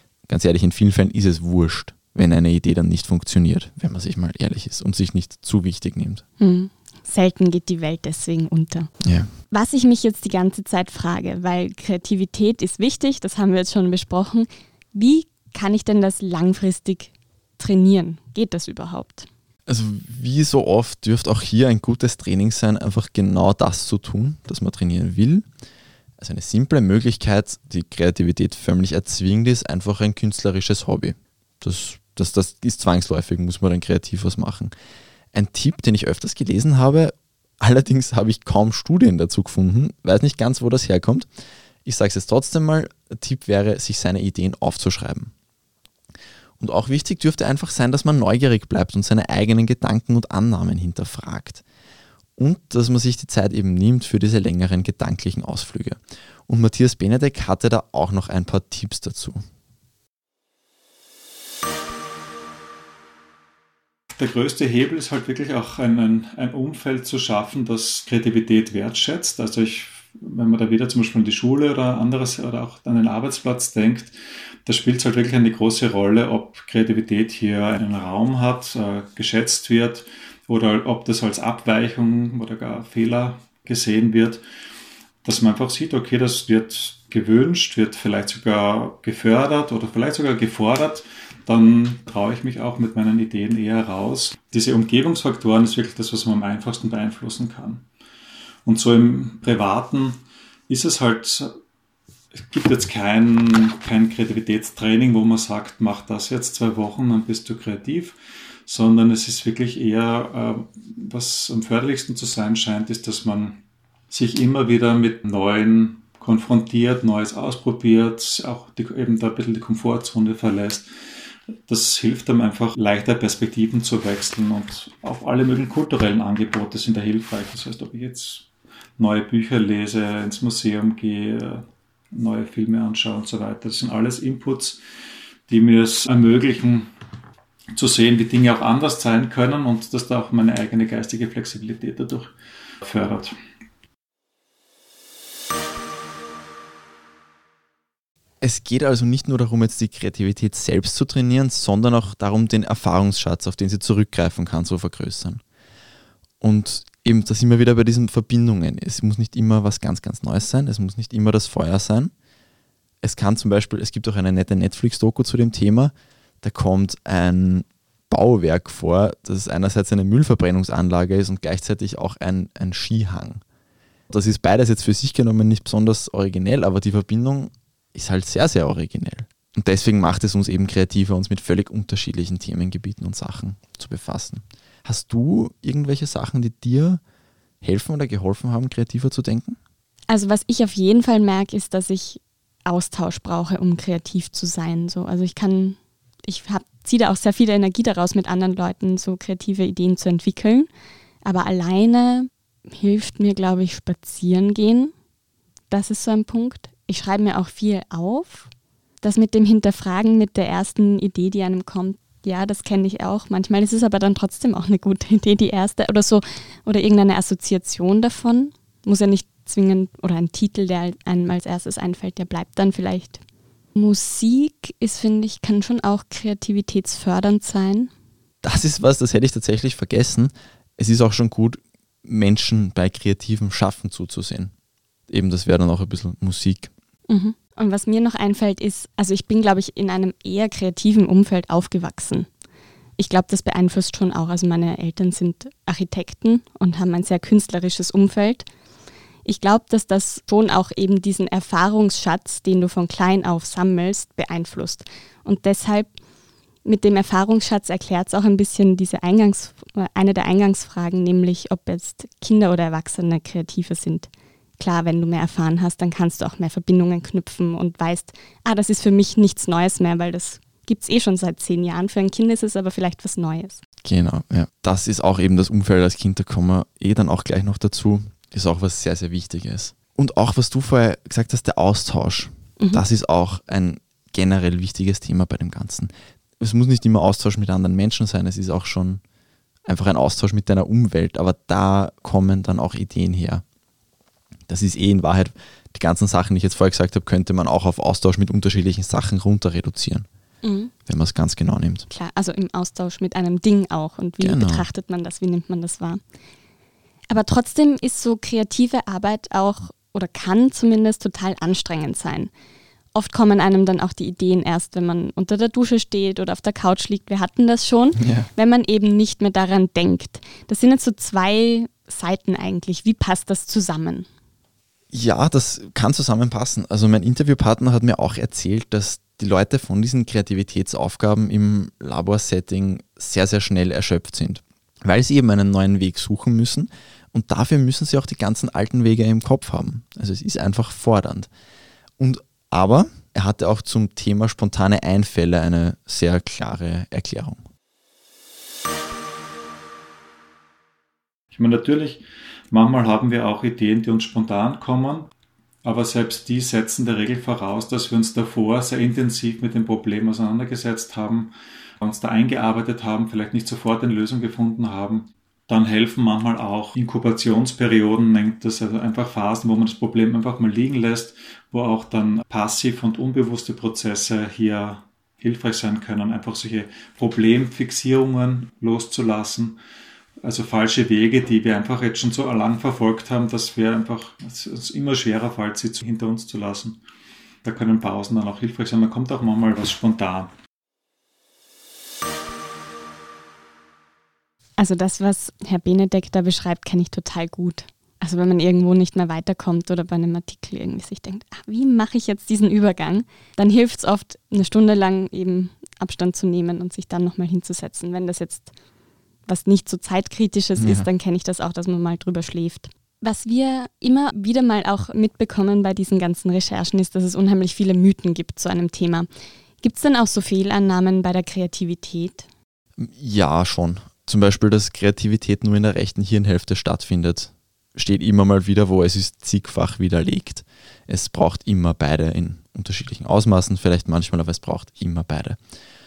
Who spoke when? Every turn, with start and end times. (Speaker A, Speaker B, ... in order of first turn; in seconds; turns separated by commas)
Speaker A: 0.3-6.2, Speaker B: 6.4-8.9, Speaker A: 9.0-9.3, Speaker B: 9.5-19.3, Speaker A: 19.7-25.4, Speaker A: 26.2-34.7, Speaker A: 35.3-41.3, Speaker A: 41.8-45.3, Speaker A: 46.6-51.6, Speaker A: 52.4-59.4, Speaker C: 64.1-74.1, Speaker C: 74.6-84.4, Speaker C: 85.2-97.8, Speaker C: 98.6-101.5, Speaker C: 102.3-120.9, Speaker C: 121.7-128.5, Speaker C: 129.0-134.8, Speaker C: 135.5-136.9, Speaker C: 137.7-143.3, Speaker A: 148.4-155.4, Speaker A: 156.4-162.1, Speaker A: 163.0-173.4, Speaker A: 174.1-187.0, Speaker A: 187.6-189.6, Speaker B: 190.1-200.7, Speaker B: 201.2-204.9, Speaker B: 205.7-208.5, Speaker B: 209.0-223.2, Speaker B: 223.7-227.9, Speaker A: 228.4-234.5, Speaker A: 235.1-236.7, Speaker B: 237.1-242.3, Speaker B: 243.0-248.5, Speaker B: 249.2-255.9, Speaker B: 256.6-273.6, Speaker A: 273.8-289.0, Speaker A: 289.7-293.4, Speaker A: 294.5-300.1, Speaker B: 300.4-300.7, Speaker A: 300.9-301.9, Speaker B: 301.9-306.0, Speaker A: 304.2-304.6, Speaker B: 307.1-312.3, Speaker B: 312.9-324.1, Speaker A: 318.0-318.3, Speaker A: 324.9-341.3, Speaker A: 342.0-347.4, Speaker C: 351.3-355.1, Speaker C: 355.6-379.6, Speaker C: 380.2-386.8, Speaker C: 387.4-390.3, Speaker B: 394.6-408.5, Speaker B: 409.2-419.1, Speaker A: 410.6-410.9, Speaker B: 419.6-422.3, Speaker A: 422.8-435.4